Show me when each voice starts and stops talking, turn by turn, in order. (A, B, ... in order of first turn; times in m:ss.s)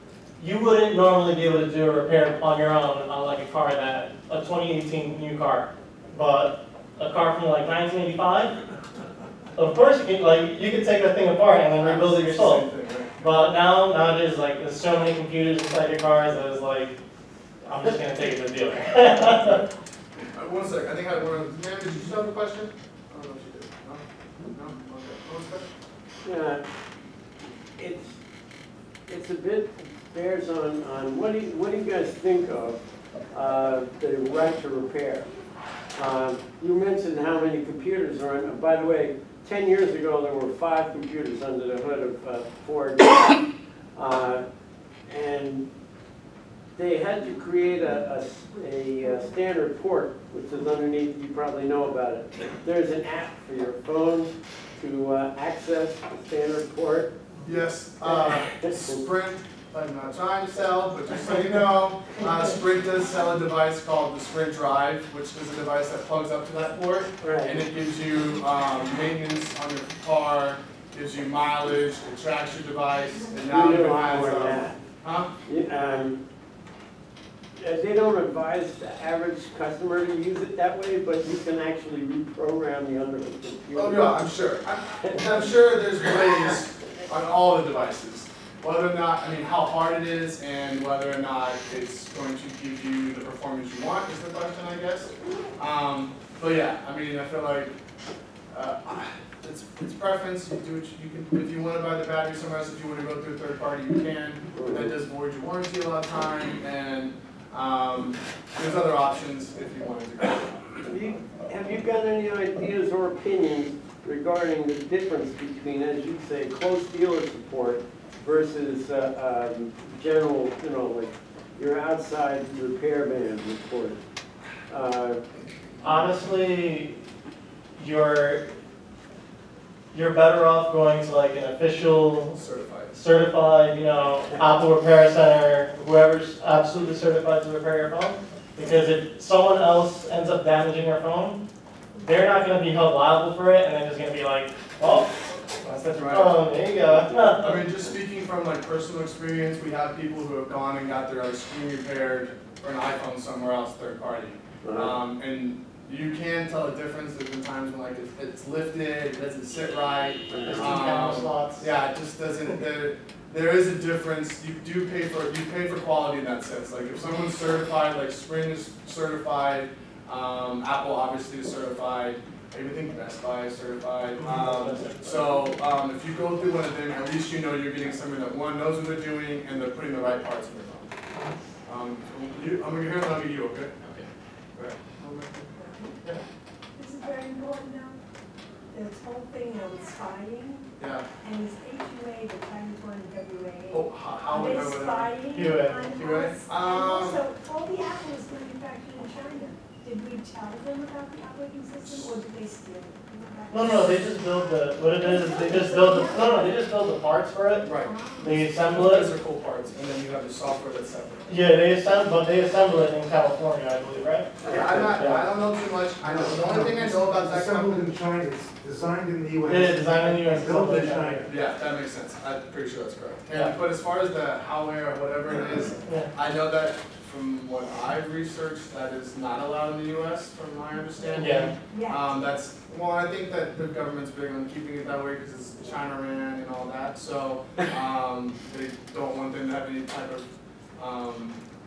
0:00.4-0:08.6 A
0:09.6-0:12.7 A
0:11.8-0:13.2 B
0:13.2-0:17.0 A
0:17.6-0:19.6 A
0:20.3-0:25.7 B
0:26.2-0:26.6 C
0:27.8-0:28.2 C
0:29.1-0:32.8 C
0:33.3-0:35.3 C
0:36.0-0:44.4 C
0:45.1-0:45.7 C
0:46.8-0:57.2 C
0:57.4-1:15.3 B
0:58.1-0:59.0 C
1:07.2-1:07.6 C
1:13.5-1:14.8 C
1:15.5-1:16.2 C
1:17.6-1:24.0 C
1:23.7-1:37.8 B
1:38.5-1:50.7 B
1:44.6-1:44.9 C
1:50.8-2:04.0 C
2:04.7-2:05.2 C
2:05.8-2:07.0 A
2:07.8-2:08.5 A
2:09.9-2:12.4 A
2:12.2-2:13.0 B
2:12.9-2:21.4 A
2:22.0-2:25.2 A
2:25.6-2:26.4 B
2:26.1-2:27.6 A
2:27.4-3:00.9 B
2:34.6-2:34.9 C
2:40.3-2:40.7 C
2:40.5-2:41.7 A
2:54.2-2:55.4 A
3:01.6-3:03.9 B
3:04.6-3:05.5 B
3:05.5-3:06.0 D
3:06.8-3:08.0 D
3:08.7-3:10.7 D
3:10.8-3:11.0 B
3:11.2-3:26.5 D
3:13.7-3:17.2 B
3:15.3-3:15.8 A
3:21.8-3:22.1 B
3:23.5-3:27.7 A
3:27.6-3:28.0 B
3:27.7-3:28.5 D
3:28.2-3:29.1 A
3:28.7-3:31.3 B
3:31.3-3:35.2 A
3:34.4-3:37.9 B
3:36.0-3:41.3 E
3:39.5-3:41.3 A
3:41.2-4:00.2 B
3:51.2-3:51.5 A
3:51.7-3:52.1 D
4:00.8-4:01.4 B